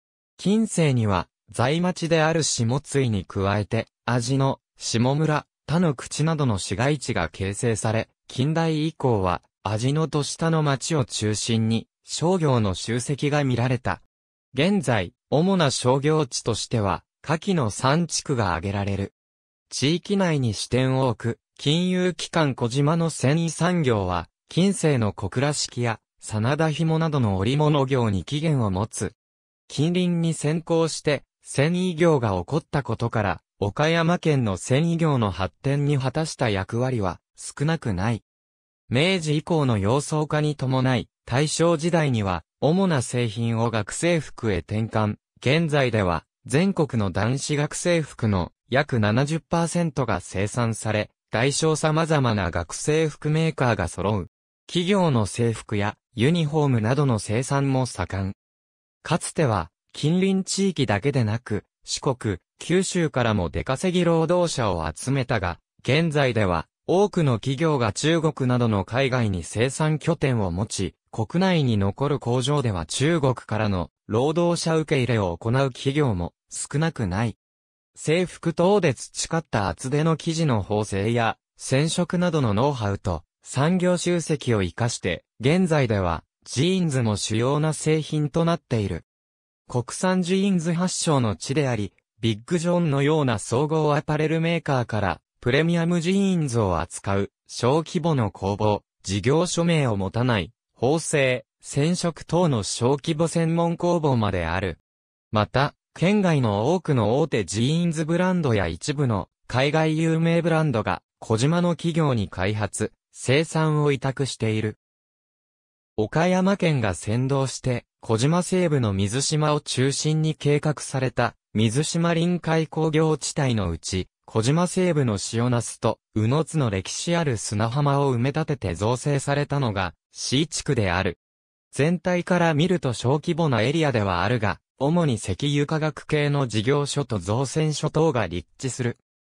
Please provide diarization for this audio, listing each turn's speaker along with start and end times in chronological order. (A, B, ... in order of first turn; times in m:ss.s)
0:00.4-0:19.1 A
0:19.7-0:29.1 A
0:29.7-0:38.2 A
0:38.9-0:58.4 A
0:59.0-1:17.4 A
1:18.0-1:29.0 A
1:29.7-1:44.8 A
1:45.3-1:54.8 A
1:56.0-2:11.2 A
2:11.7-2:19.0 A